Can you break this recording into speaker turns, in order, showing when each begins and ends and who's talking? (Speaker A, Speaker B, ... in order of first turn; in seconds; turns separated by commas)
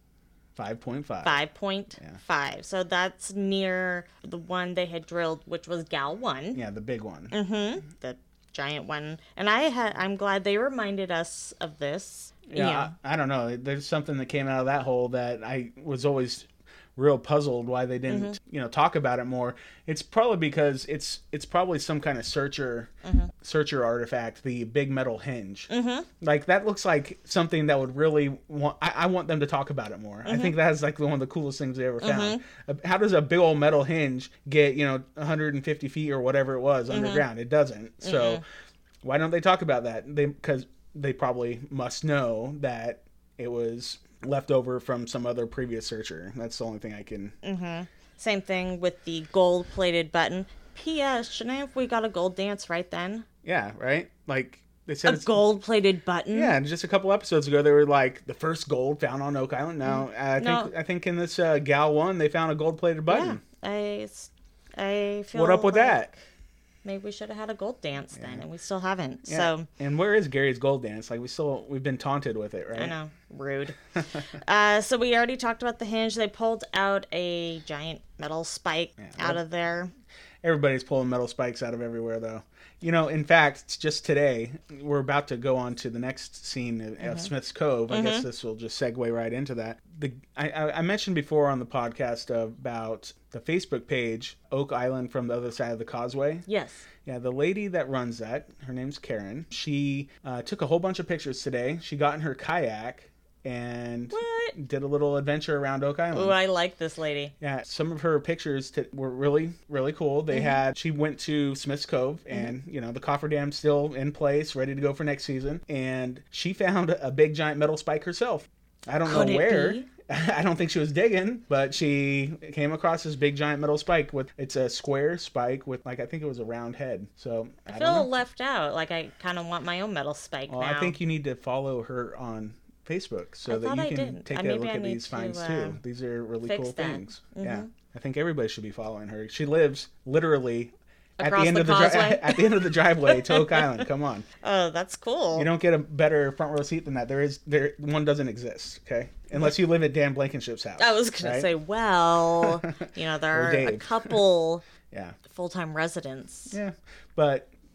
Speaker A: 0.6-1.4, Speaker B: 1.2-6.6, Speaker A: 6.5-7.3, Speaker B: 7.3-12.9, Speaker A: 12.5-38.4, Speaker B: 18.1-18.4, Speaker B: 23.0-23.3, Speaker B: 25.7-26.1, Speaker B: 30.2-30.6, Speaker B: 32.0-32.4, Speaker B: 36.9-37.2, Speaker B: 38.0-38.4, Speaker A: 39.0-47.4, Speaker B: 47.4-53.2, Speaker A: 53.4-55.3, Speaker B: 55.0-56.5, Speaker A: 56.3-63.4, Speaker B: 59.8-60.7, Speaker B: 63.1-66.1, Speaker A: 65.3-66.1, Speaker B: 66.8-69.7, Speaker A: 68.1-68.5, Speaker A: 69.2-72.9, Speaker B: 72.7-79.9, Speaker A: 79.0-79.4, Speaker A: 80.4-96.4, Speaker B: 87.0-87.3, Speaker B: 87.9-88.2, Speaker B: 96.5-96.9, Speaker A: 97.0-106.3, Speaker B: 104.1-104.5, Speaker B: 106.1-107.3, Speaker A: 107.4-128.1, Speaker B: 110.3-110.6, Speaker B: 119.0-119.9, Speaker B: 127.7-131.0, Speaker A: 130.5-144.3, Speaker B: 133.5-135.8, Speaker B: 136.4-137.7, Speaker B: 141.2-143.8, Speaker B: 144.4-145.5, Speaker A: 145.3-151.5, Speaker B: 150.8-154.6, Speaker A: 152.6-154.2, Speaker A: 154.9-155.2, Speaker B: 155.3-156.5, Speaker A: 156.5-157.5